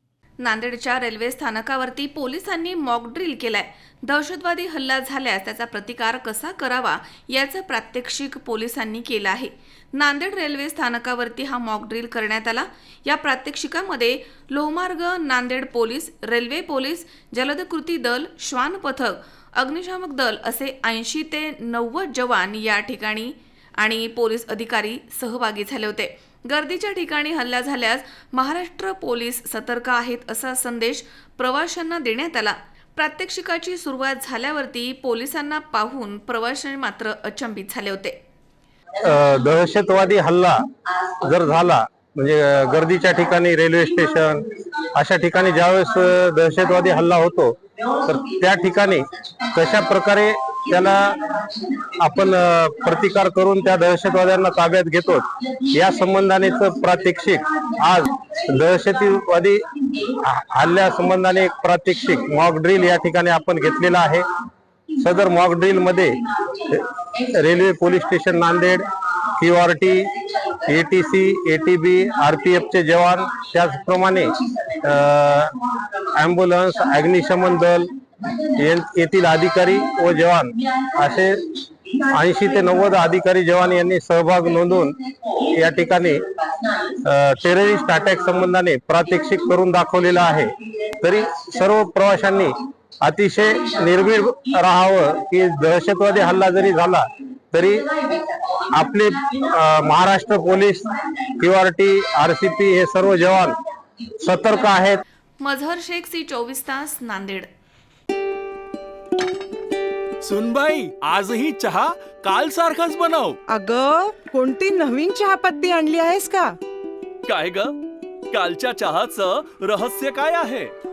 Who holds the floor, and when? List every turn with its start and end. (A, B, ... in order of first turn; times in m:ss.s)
0:00.4-0:38.2 A
0:39.0-0:40.6 B
0:41.2-0:51.2 B
0:52.0-0:59.6 B
1:00.2-1:04.3 B
1:05.0-1:10.1 B
1:10.7-1:15.5 B
1:16.2-1:17.9 B
1:18.5-1:21.4 B
1:22.1-1:26.2 B
1:27.0-1:30.5 B
1:31.0-1:37.9 B
1:38.7-1:40.9 B
1:41.4-1:43.6 B
1:44.2-1:45.0 B
1:45.4-1:47.5 A
1:50.2-1:53.4 C
1:53.5-1:56.6 D
1:57.3-1:57.7 C
1:58.3-2:00.7 C